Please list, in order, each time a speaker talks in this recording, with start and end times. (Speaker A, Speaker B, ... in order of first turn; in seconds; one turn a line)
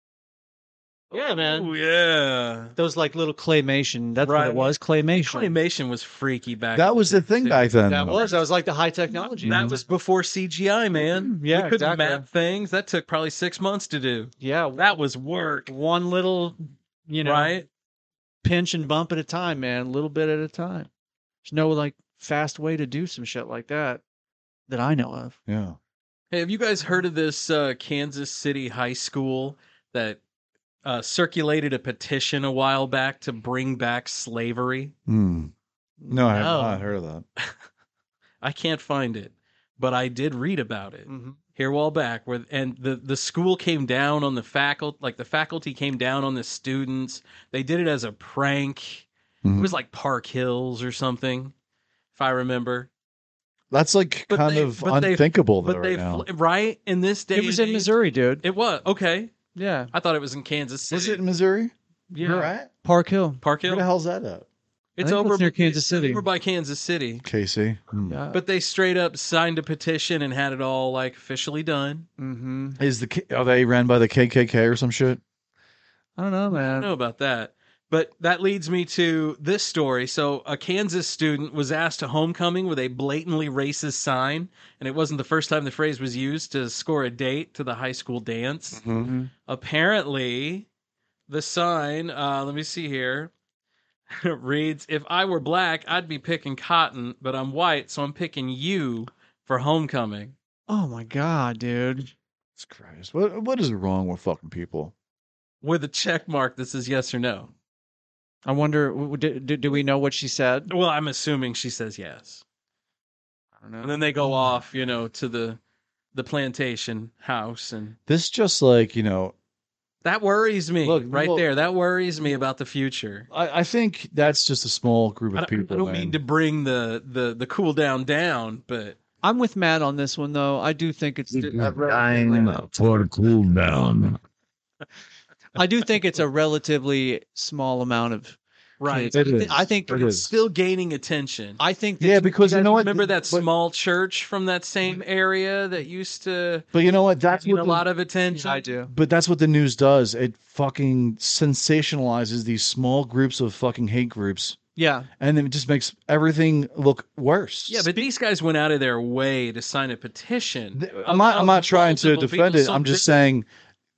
Speaker A: 1.1-1.7
Speaker B: 1.4-2.7
Speaker A: 2.8-5.5
Speaker B: 4.2-7.6
Speaker C: 6.7-8.2
Speaker A: 7.9-9.8
Speaker C: 9.4-9.7
Speaker B: 9.4-15.7
Speaker A: 11.2-12.2
Speaker A: 14.4-14.8
Speaker A: 15.7-17.5
Speaker B: 17.2-17.7
Speaker A: 18.4-20.9
Speaker A: 21.4-24.0
Speaker A: 24.7-25.4
Speaker C: 25.5-25.8
Speaker B: 26.3-30.2
Speaker B: 30.8-34.9
Speaker C: 35.1-35.5
Speaker A: 36.0-36.9
Speaker C: 36.1-37.2
Speaker B: 38.4-51.5
Speaker A: 41.1-41.4
Speaker C: 49.4-49.7
Speaker B: 52.1-52.9
Speaker C: 53.7-56.2
Speaker B: 54.3-59.3
Speaker A: 57.3-58.4
Speaker A: 59.5-59.9
Speaker B: 59.9-61.2
Speaker C: 60.9-62.7
Speaker A: 62.1-63.4
Speaker B: 63.4-63.8
Speaker C: 63.6-64.5
Speaker B: 65.0-67.2
Speaker A: 65.0-66.2
Speaker C: 67.2-68.2
Speaker A: 68.1-68.4
Speaker B: 68.3-72.0
Speaker A: 72.2-72.8
Speaker C: 72.8-75.2
Speaker A: 76.2-76.9
Speaker B: 76.5-88.8
Speaker C: 88.7-89.1
Speaker A: 89.0-89.3
Speaker B: 89.5-90.7
Speaker B: 91.3-93.3
Speaker B: 94.1-100.3
Speaker A: 100.7-102.1
Speaker C: 102.6-104.9
Speaker B: 105.6-107.5
Speaker A: 108.5-110.7
Speaker B: 110.7-112.4
Speaker A: 113.6-114.0
Speaker B: 113.8-115.6
Speaker B: 116.1-118.0
Speaker C: 118.1-119.3
Speaker B: 120.0-123.3
Speaker C: 120.8-121.4
Speaker C: 123.3-126.2
Speaker B: 125.3-129.0
Speaker A: 129.2-132.5
Speaker D: 131.3-134.2
Speaker A: 135.5-140.2
Speaker B: 138.8-139.2
Speaker C: 139.1-140.3
Speaker B: 139.9-141.6
Speaker A: 141.6-142.3
Speaker C: 142.0-143.5
Speaker B: 142.4-146.7
Speaker C: 146.7-147.8
Speaker B: 147.3-148.7
Speaker A: 148.3-148.9
Speaker C: 148.9-154.6
Speaker A: 154.8-155.1
Speaker C: 155.2-158.0
Speaker B: 157.7-163.1
Speaker C: 160.7-163.4